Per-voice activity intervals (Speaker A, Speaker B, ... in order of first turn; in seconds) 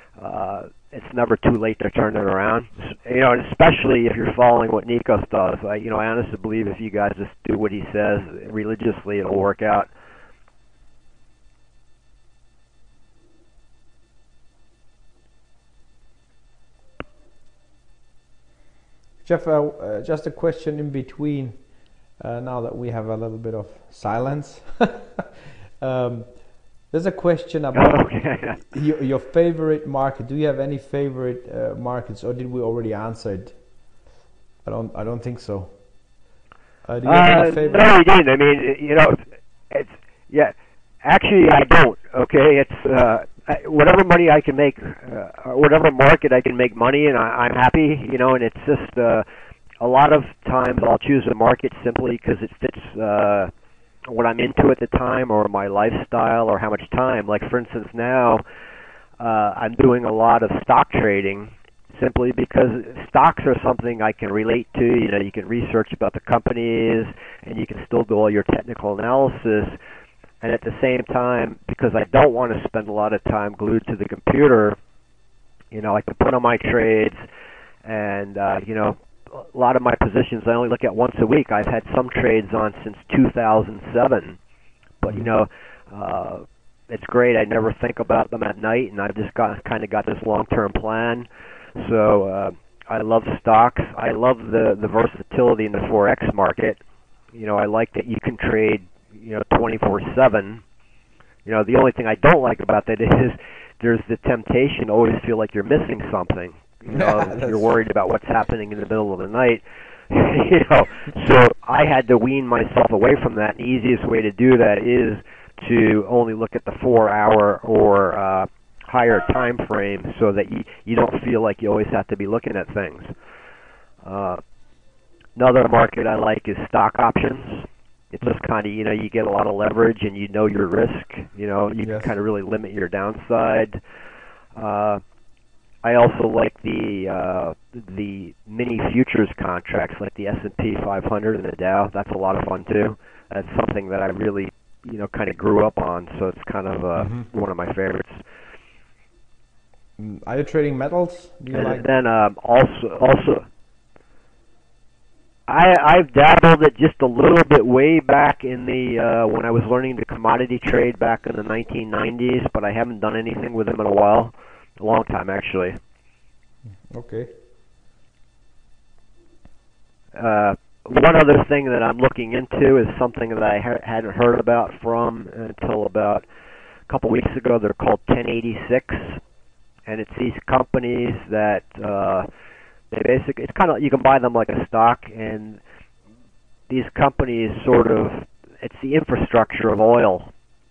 Speaker A: 0.2-9.9, 27.7-28.6, 37.0-39.2, 39.7-49.2, 49.8-53.5, 54.1-58.4, 59.2-69.8, 70.4-74.8, 75.7-77.2, 77.8-84.4, 85.0-96.8, 97.3-100.6, 101.5-123.1, 124.0-124.4, 125.4-133.8, 134.6-135.0, 135.8-148.2, 151.5-153.5, 155.5-165.8, 170.2-176.2, 176.9-179.2, 179.9-182.3, 182.9-185.6, 186.7-190.3
Speaker B: 19.2-21.6, 22.2-25.3, 25.8-26.3, 26.9-28.1, 28.6-33.5, 34.6-35.7, 36.9-37.9, 106.9-107.6, 131.8-132.1, 147.0-147.3, 150.0-151.9, 166.9-167.3